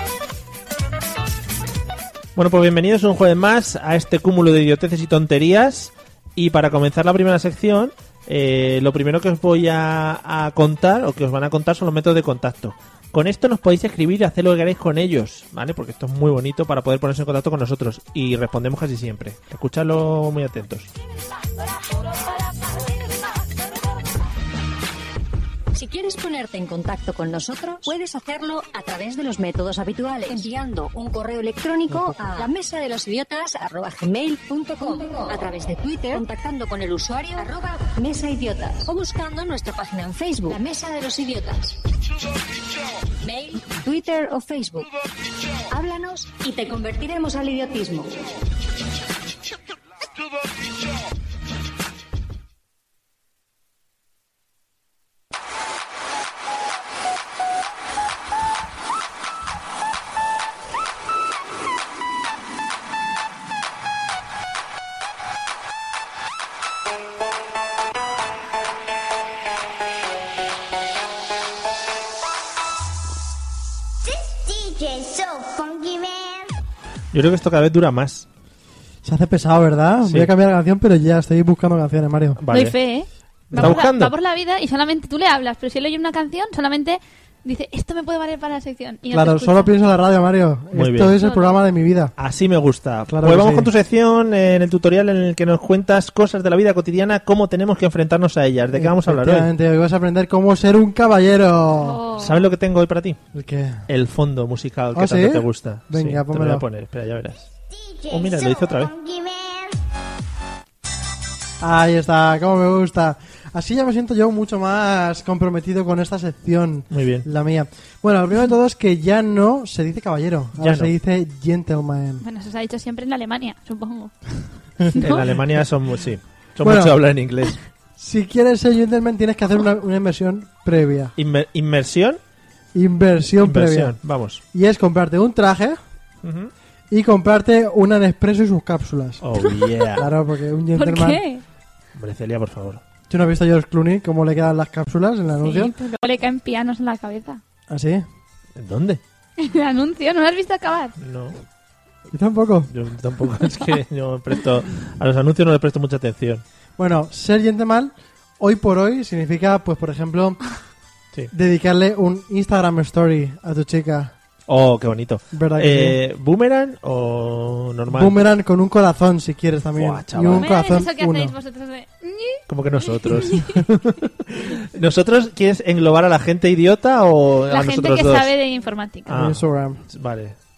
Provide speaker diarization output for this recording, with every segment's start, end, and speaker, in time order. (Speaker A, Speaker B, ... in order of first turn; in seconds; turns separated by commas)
Speaker A: 2.4-20.9, Speaker B: 25.8-41.8, Speaker A: 31.9-32.2, Speaker B: 43.2-44.9, Speaker B: 45.7-48.2, Speaker C: 74.0-76.5, Speaker A: 77.1-78.3, Speaker D: 79.0-82.4, Speaker A: 80.0-80.3, Speaker A: 82.4-82.8, Speaker E: 82.5-89.7, Speaker A: 83.5-84.1, Speaker D: 83.5-83.8, Speaker D: 89.1-92.1, Speaker A: 90.7-91.2, Speaker E: 91.2-91.6, Speaker A: 92.2-99.5, Speaker D: 93.1-93.7, Speaker D: 98.7-102.0, Speaker E: 101.8-102.4, Speaker A: 102.2-103.2, Speaker D: 103.3-103.8, Speaker A: 103.9-107.5, Speaker D: 104.9-106.6, Speaker C: 107.7-109.8, Speaker A: 108.1-108.9, Speaker D: 111.6-122.2, Speaker A: 116.9-117.3, Speaker A: 120.6-120.9, Speaker E: 122.2-125.3, Speaker A: 125.0-127.6, Speaker D: 126.6-127.0, Speaker D: 128.0-131.1, Speaker A: 131.2-132.2, Speaker D: 132.7-134.0, Speaker A: 133.4-134.4, Speaker D: 134.5-135.8, Speaker A: 136.2-136.5, Speaker D: 136.9-139.2, Speaker A: 139.2-140.1, Speaker D: 140.0-141.2, Speaker E: 140.8-141.4, Speaker A: 141.9-142.8, Speaker D: 143.1-145.7, Speaker E: 145.4-147.4, Speaker D: 147.7-148.1, Speaker A: 148.6-149.0, Speaker E: 149.4-150.9, Speaker A: 151.0-151.4, Speaker D: 152.1-152.7, Speaker A: 152.7-156.4, Speaker D: 156.8-160.4, Speaker D: 161.3-164.1, Speaker A: 164.5-168.2, Speaker D: 165.3-166.0, Speaker D: 167.9-171.3, Speaker A: 169.8-170.5, Speaker E: 170.3-173.6, Speaker A: 172.5-178.3, Speaker E: 177.5-179.2, Speaker A: 179.1-180.4, Speaker D: 179.1-179.8